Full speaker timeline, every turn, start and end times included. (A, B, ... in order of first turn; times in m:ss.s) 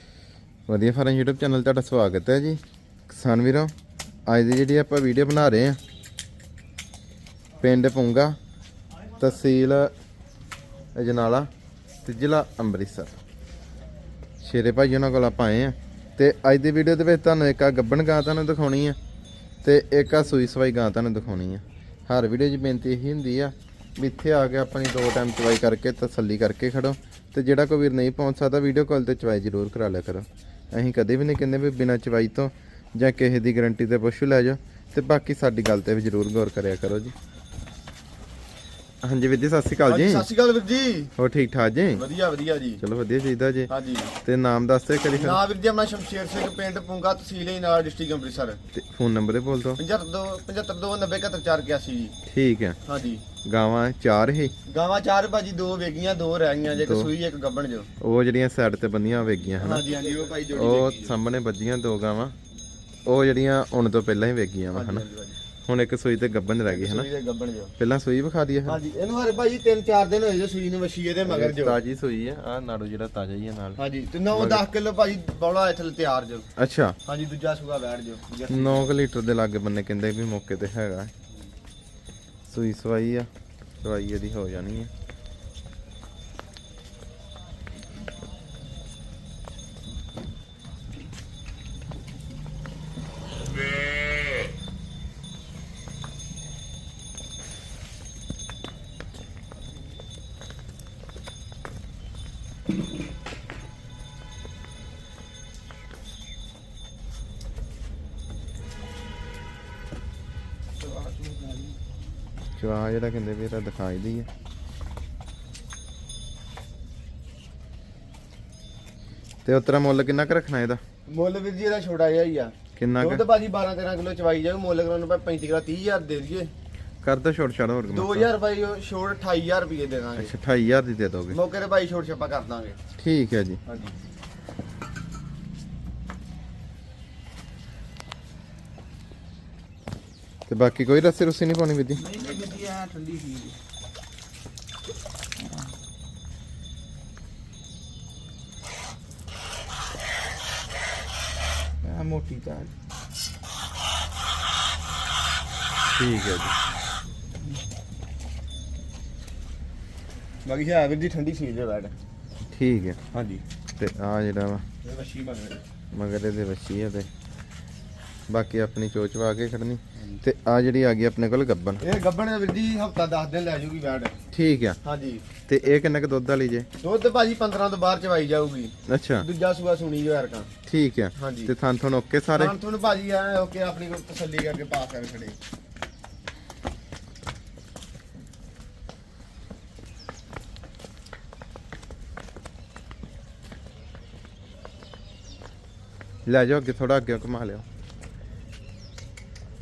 0:00.7-0:03.7 A
0:04.3-0:05.8 A
0:07.6-0:08.4 A
0:09.2-0:09.9 A
0:11.0-0:11.5 A
0:12.0-0:13.2 A
0:14.4-0:19.0 A
0:19.6-0:37.1 A
0:39.0-0:40.3 A
0:39.9-0:41.1 B
0:41.2-0:42.0 A
0:42.0-0:42.8 B
0:42.8-0:43.7 A
0:43.7-0:44.1 B
0:44.2-0:45.4 A
0:45.1-0:48.6 B
0:48.7-0:49.8 A
0:49.8-0:52.1 B
0:52.3-0:52.8 A
0:52.8-0:53.2 B
0:53.4-0:54.5 A
0:54.7-0:57.9 B
0:56.8-0:57.1 A
0:58.0-0:59.8 A
0:59.6-1:01.2 B
1:00.5-1:02.3 A
1:03.0-1:05.0 A
1:04.7-1:05.4 B
1:05.6-1:07.1 A
1:06.7-1:07.7 B
1:07.8-1:08.8 A
1:08.6-1:11.8 B
1:11.2-1:13.8 A
1:13.8-1:16.5 B
1:14.3-1:14.6 A
1:16.6-1:17.0 A
1:17.0-1:18.9 B
1:18.5-1:21.1 A
1:22.5-1:23.3 A
1:23.8-1:24.9 A
1:50.8-1:51.8 B
1:52.6-1:54.3 A
1:59.4-2:00.8 A
2:01.1-2:06.5 B
2:02.8-2:03.2 A
2:07.0-2:08.3 A
2:07.9-2:10.3 B
2:10.2-2:11.4 A
2:11.3-2:12.8 B
2:13.0-2:13.6 A
2:13.6-2:13.9 B
2:20.5-2:22.0 A
2:22.0-2:23.5 B
2:31.8-2:32.7 B
2:35.9-2:36.5 A
2:40.4-2:41.9 B
2:42.5-2:43.0 A
2:43.1-2:43.4 B
2:43.8-2:44.6 A
2:44.8-2:45.6 B
2:45.9-2:47.1 A
2:48.3-2:51.8 A
2:51.8-2:54.1 B
2:54.3-2:54.8 A
2:54.8-2:55.2 B
2:55.4-2:56.7 A
2:56.8-3:00.5 B
2:58.9-2:59.3 A
3:00.7-3:02.6 A
3:01.2-3:01.5 B
3:02.3-3:05.4 B
3:16.2-3:17.6 A